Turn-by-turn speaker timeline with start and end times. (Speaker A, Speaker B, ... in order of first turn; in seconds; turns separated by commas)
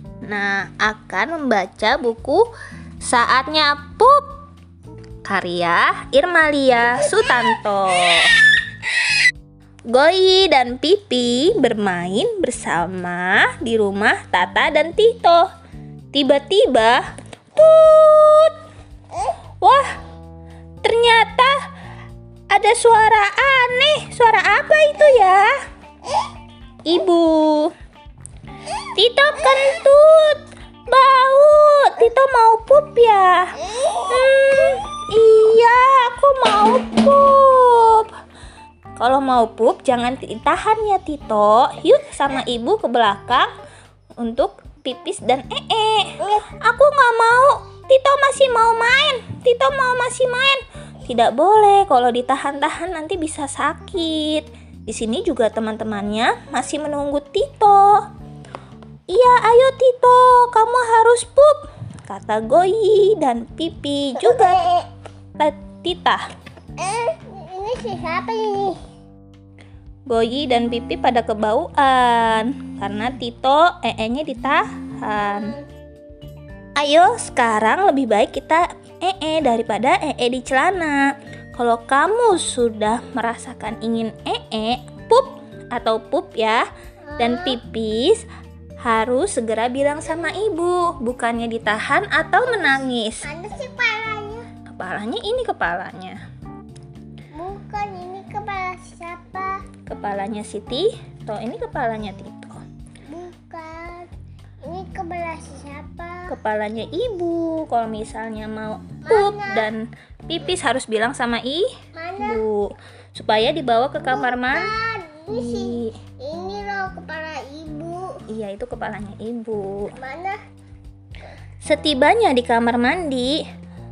Speaker A: 0.2-2.4, Speaker A: 3.0-4.3, Speaker A: 5.2-8.4, Speaker A: 9.9-15.5, Speaker A: 16.1-17.0, Speaker A: 17.5-18.6, Speaker A: 19.6-19.9, Speaker A: 20.8-21.5, Speaker A: 22.5-25.5, Speaker A: 26.8-27.7, Speaker A: 28.9-38.1, Speaker A: 39.0-43.5, Speaker A: 44.2-58.0, Speaker A: 59.1-64.7, Speaker B: 64.5-64.8, Speaker A: 65.4-66.2, Speaker B: 66.8-68.8, Speaker A: 70.1-75.5, Speaker B: 75.3-75.6, Speaker A: 76.8-86.6, Speaker B: 87.1-87.6, Speaker A: 87.2-88.2, Speaker A: 88.8-93.3, Speaker B: 92.4-94.5, Speaker A: 94.7-96.2, Speaker B: 97.3-99.6, Speaker A: 99.8-102.6, Speaker B: 103.1-104.1, Speaker B: 104.6-106.3, Speaker A: 106.3-114.7, Speaker B: 109.0-109.7, Speaker B: 111.9-112.4, Speaker B: 114.2-118.2, Speaker A: 115.3-115.9, Speaker A: 118.3-119.9, Speaker B: 119.9-120.4, Speaker A: 121.6-123.4